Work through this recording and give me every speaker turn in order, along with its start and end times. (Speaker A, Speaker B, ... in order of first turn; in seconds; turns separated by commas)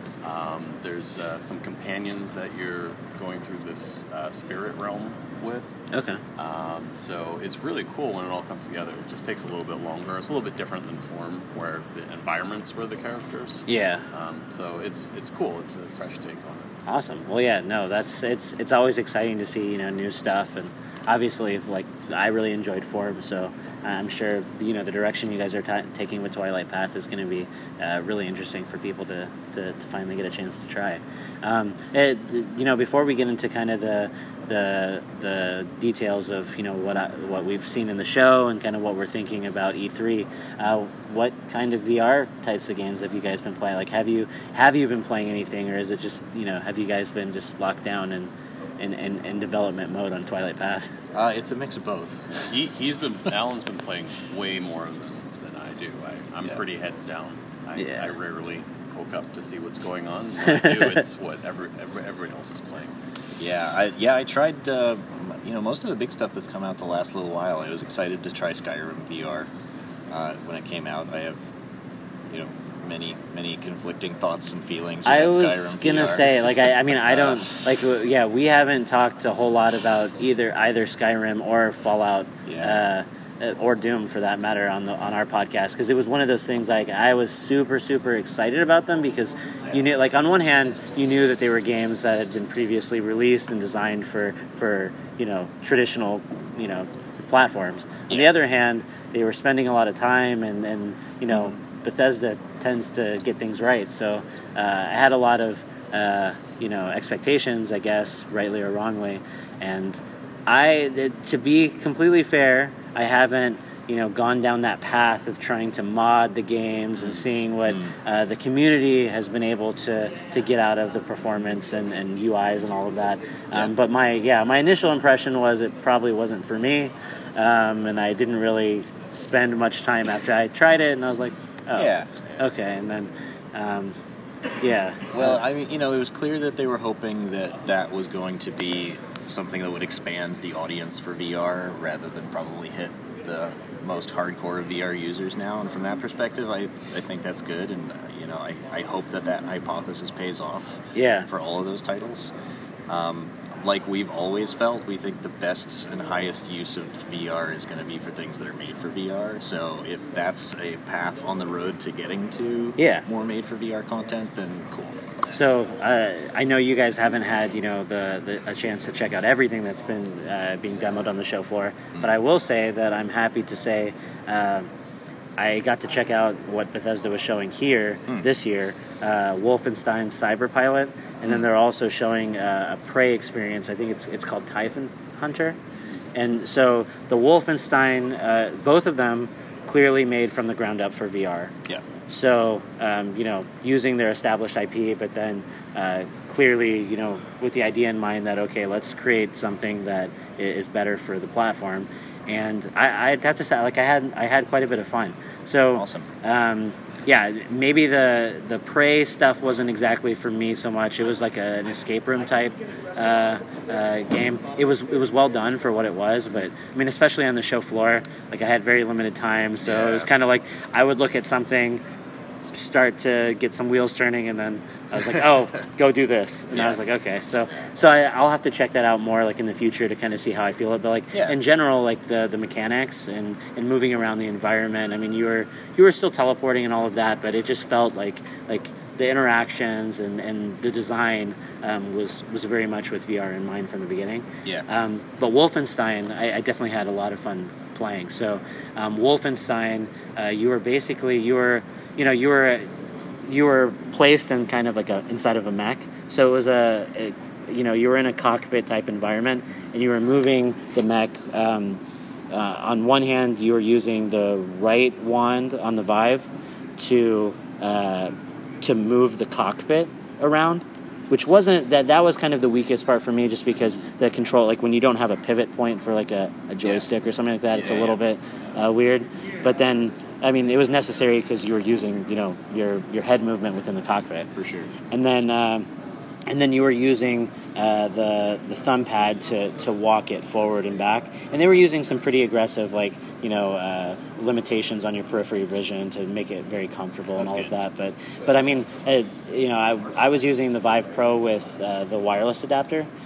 Speaker A: 0.2-5.8, Speaker B: 5.9-6.2, Speaker A: 6.3-16.7, Speaker B: 13.7-14.0, Speaker B: 16.9-50.9, Speaker C: 51.1-52.4, Speaker A: 52.3-62.9, Speaker B: 57.8-58.1, Speaker B: 60.5-61.0, Speaker C: 63.4-69.5, Speaker C: 70.1-71.4, Speaker C: 72.3-77.5, Speaker B: 75.0-133.9, Speaker C: 82.5-82.8, Speaker C: 101.3-101.5, Speaker C: 131.7-132.1, Speaker B: 134.6-135.4, Speaker C: 135.1-152.3, Speaker B: 150.9-151.3, Speaker C: 152.9-165.3, Speaker B: 162.8-163.1, Speaker B: 165.3-174.7, Speaker B: 175.4-185.6, Speaker B: 186.1-191.5, Speaker B: 192.1-221.8, Speaker C: 205.7-206.1, Speaker C: 219.7-220.0, Speaker B: 222.5-252.7, Speaker C: 226.5-226.8, Speaker B: 253.2-284.3, Speaker C: 277.6-277.9, Speaker C: 284.3-284.7, Speaker B: 284.9-285.7, Speaker B: 286.3-302.9, Speaker C: 297.2-297.5